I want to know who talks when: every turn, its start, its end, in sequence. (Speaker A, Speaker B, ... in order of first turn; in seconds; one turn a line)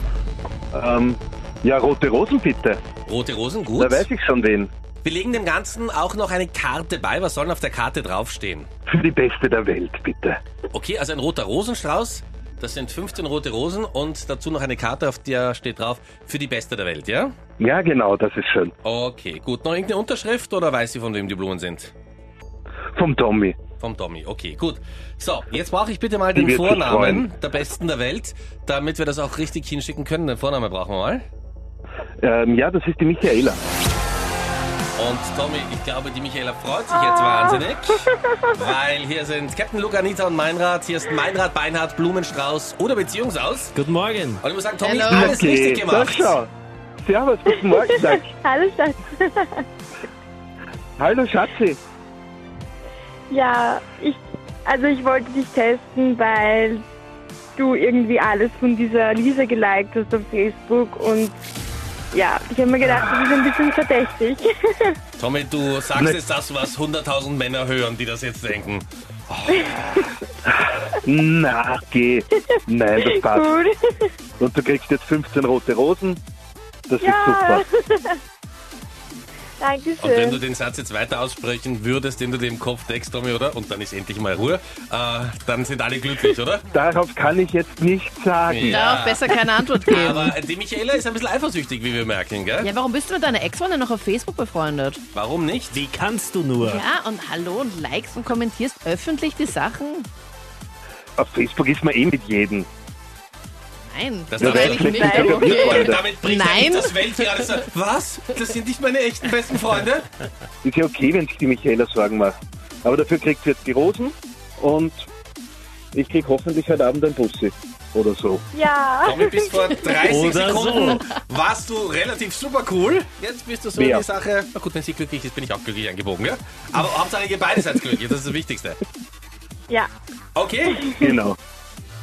Speaker A: 0.7-2.8
Speaker B: 3.1-4.1
Speaker A: 3.8-4.7
Speaker B: 5.0-8.7
Speaker A: 8.9-10.4
Speaker B: 10.7-17.3
Speaker A: 17.6-18.7
Speaker B: 18.8-21.9
Speaker A: 22.9-23.6
Speaker B: 23.8-31.3
Speaker A: 26.4-27.3
Speaker A: 32.2-33.6
Speaker B: 35.0-43.7
Speaker C: 37.0-37.4
Speaker D: 43.8-44.4
Speaker B: 44.4-46.4
Speaker E: 44.8-45.4
Speaker A: 45.1-46.5
Speaker A: 47.0-48.3
Speaker C: 47.5-49.6
Speaker A: 51.0-51.8
Speaker C: 53.3-56.8
Speaker C: 57.6-61.4
Speaker C: 62.1-65.0
Speaker B: 65.2-70.0
Speaker C: 69.5-69.9
Speaker A: 71.0-73.5
Speaker C: 73.0-74.1
Speaker A: 74.4-76.2
Speaker A: 76.9-77.7
Speaker C: 77.0-78.2
Speaker C: 79.6-80.4
Speaker B: 80.0-86.6
Speaker A: 86.7-88.8
Speaker B: 88.5-92.7
Speaker E: 88.7-90.4
Speaker E: 92.6-95.0
Speaker B: 95.1-95.8
Speaker D: 95.7-96.8
Speaker E: 96.6-100.1
Speaker A: 101.2-102.7
Speaker E: 103.9-107.6
Speaker B: 104.3-110.1
Speaker A: 104.4-106.1
Speaker C: 104.5-105.8
Speaker A: 110.6-115.0
Speaker A: 115.9-118.4
Speaker C: 118.5-119.9
Speaker B: 119.0-128.8
Speaker D: 120.1-121.0
Speaker A: 123.8-124.1
Speaker B: 130.4-130.9
Speaker C: 130.7-131.1
Speaker A: 131.0-131.4